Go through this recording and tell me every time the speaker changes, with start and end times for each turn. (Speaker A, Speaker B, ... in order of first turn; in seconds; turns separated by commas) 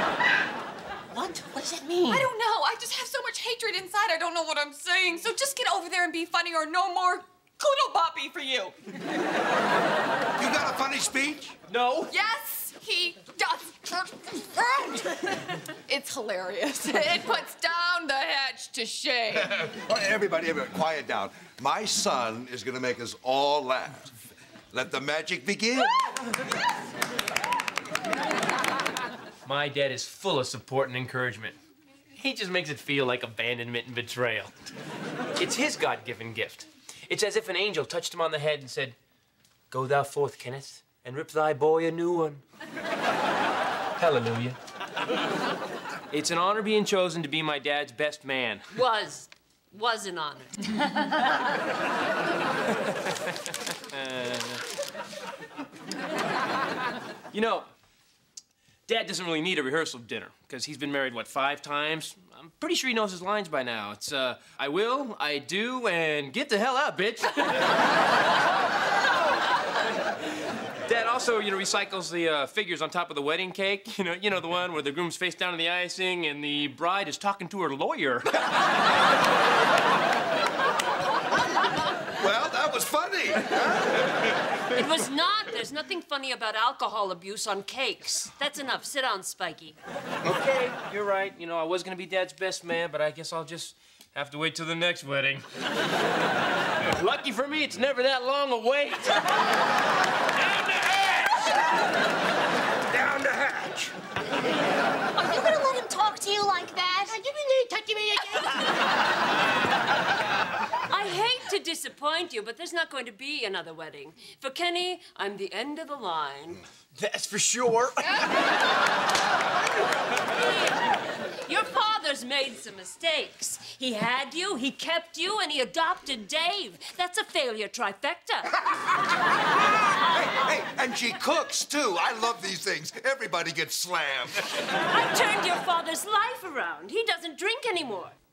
Speaker A: 1.1-2.3, Speaker B: 2.1-8.8, Speaker C: 10.4-11.6, Speaker A: 11.7-12.1, Speaker B: 12.1-19.6, Speaker C: 19.3-24.2, Speaker C: 24.7-26.2, Speaker A: 29.4-31.6, Speaker A: 32.2-34.5, Speaker A: 35.4-39.0, Speaker A: 39.7-42.4, Speaker A: 44.0-44.6, Speaker A: 46.1-48.7, Speaker D: 48.7-51.3, Speaker A: 53.0-54.6, Speaker A: 57.3-57.7, Speaker A: 58.9-67.8, Speaker A: 70.9-78.5, Speaker C: 82.2-83.8, Speaker D: 84.7-89.8, Speaker A: 90.2-95.5, Speaker A: 96.8-99.3, Speaker E: 100.4-101.5, Speaker E: 102.9-103.9, Speaker F: 105.2-107.2, Speaker G: 107.3-107.9, Speaker D: 110.9-116.6, Speaker G: 117.0-118.3, Speaker D: 120.3-128.6, Speaker C: 129.6-134.5, Speaker D: 134.8-138.2